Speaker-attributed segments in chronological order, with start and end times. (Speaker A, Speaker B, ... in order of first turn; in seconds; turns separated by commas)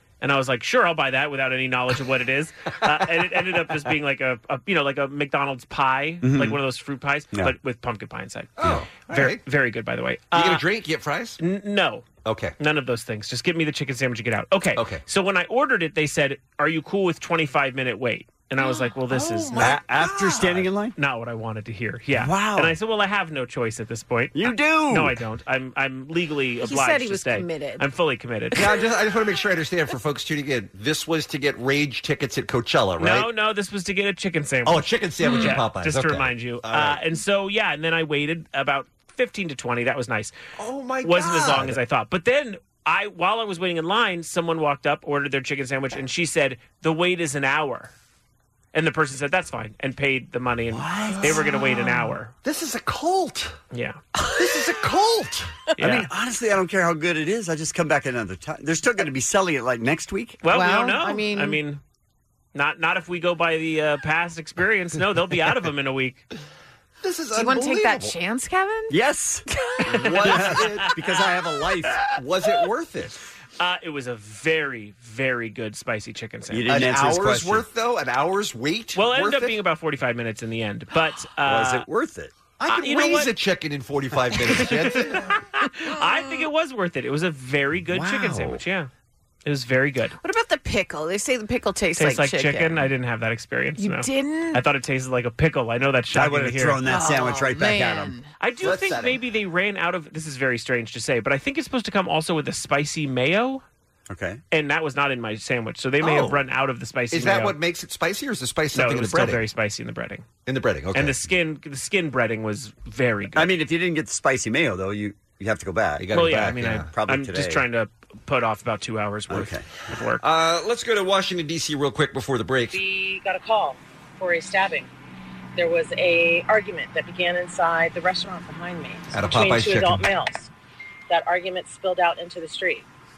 Speaker A: 0.2-10.6, Speaker B: 6.2-6.6, Speaker C: 8.6-9.4, Speaker C: 10.3-11.4, Speaker A: 11.4-12.1, Speaker C: 12.2-12.6, Speaker A: 12.6-19.8, Speaker C: 14.8-15.0, Speaker C: 19.1-20.7, Speaker B: 19.6-20.9, Speaker A: 21.0-28.6, Speaker B: 22.1-22.7, Speaker B: 24.3-25.2, Speaker D: 26.6-27.9, Speaker C: 28.5-33.3, Speaker A: 33.0-40.3, Speaker C: 34.6-37.0, Speaker C: 40.6-41.8, Speaker A: 41.0-47.9, Speaker A: 48.7-52.3, Speaker B: 50.7-51.4, Speaker D: 51.4-51.9, Speaker C: 52.4-53.5, Speaker A: 53.7-54.0, Speaker C: 54.4-55.5, Speaker A: 55.8-56.1, Speaker B: 55.8-60.4, Speaker A: 60.4-61.8, Speaker D: 60.5-61.6, Speaker A: 62.5-66.2, Speaker C: 67.0-68.2, Speaker D: 67.3-69.0, Speaker B: 68.9-72.0, Speaker D: 69.5-70.0, Speaker A: 70.0-70.9, Speaker C: 70.0-71.0, Speaker C: 72.1-73.2, Speaker A: 73.6-76.8, Speaker B: 76.5-77.7, Speaker C: 76.7-79.6, Speaker A: 79.0-81.9, Speaker B: 81.4-82.3, Speaker C: 82.6-85.3, Speaker A: 82.7-83.3, Speaker A: 84.3-88.9, Speaker B: 87.9-88.6, Speaker A: 89.5-90.2, Speaker D: 90.2-92.9, Speaker A: 92.0-96.8, Speaker D: 93.8-94.6, Speaker B: 96.1-98.2, Speaker D: 96.9-98.3, Speaker A: 98.4-103.6, Speaker C: 98.6-99.2, Speaker B: 104.1-104.4, Speaker A: 104.5-107.6, Speaker C: 106.0-106.4, Speaker C: 107.1-109.4, Speaker A: 108.7-110.2, Speaker C: 110.5-111.3, Speaker A: 110.9-113.5, Speaker B: 113.3-117.6, Speaker C: 116.0-116.9, Speaker A: 116.1-120.2, Speaker B: 119.3-119.7, Speaker C: 120.2-122.8, Speaker E: 122.7-124.9, Speaker E: 125.6-130.5, Speaker C: 129.1-130.1, Speaker E: 131.1-132.8